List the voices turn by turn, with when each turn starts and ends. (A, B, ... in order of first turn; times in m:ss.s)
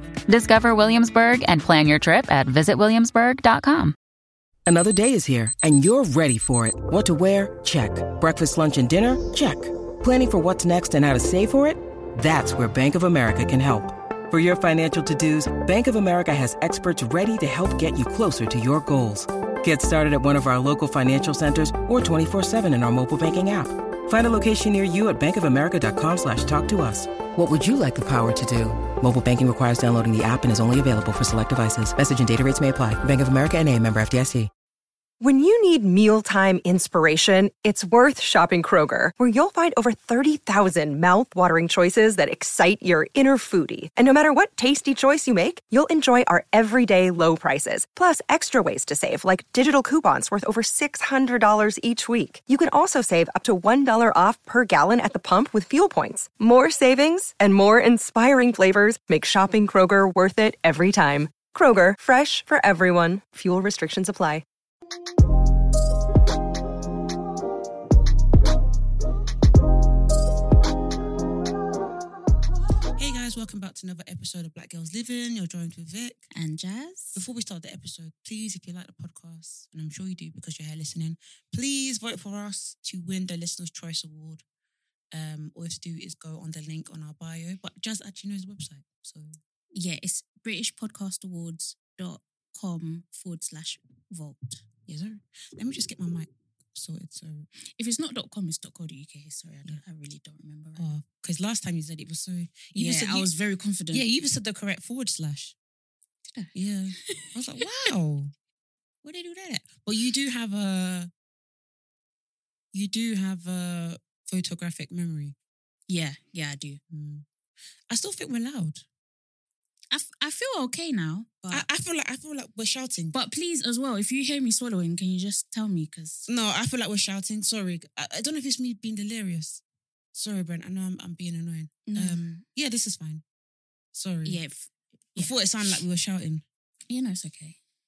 0:00.3-0:03.9 A
0:04.7-0:34.5 B
0:35.2-1:04.4 C
1:13.0-1:16.3 D
1:16.3-1:17.2 E
1:17.2-1:24.4 D
1:25.1-1:29.4 D
1:29.8-1:34.6 E
1:34.9-1:37.5 D
1:37.8-1:40.9 E
1:40.8-1:43.3 D
1:42.7-1:44.1 E
1:43.9-1:45.6 D
1:46.5-1:48.3 D
1:47.1-1:47.3 E
1:49.0-1:51.1 D
1:52.7-1:55.4 D
1:55.9-1:56.8 E
1:56.9-1:57.2 D
1:57.9-1:58.8 D
1:59.9-2:01.7 E
2:01.5-2:03.2 D
2:03.1-2:06.3 E
2:06.3-2:09.6 D
2:10.1-2:13.2 D
2:11.9-2:12.4 E
2:13.9-2:14.4 D
2:14.2-2:15.4 E
2:15.2-2:16.4 D
2:16.9-2:17.6 E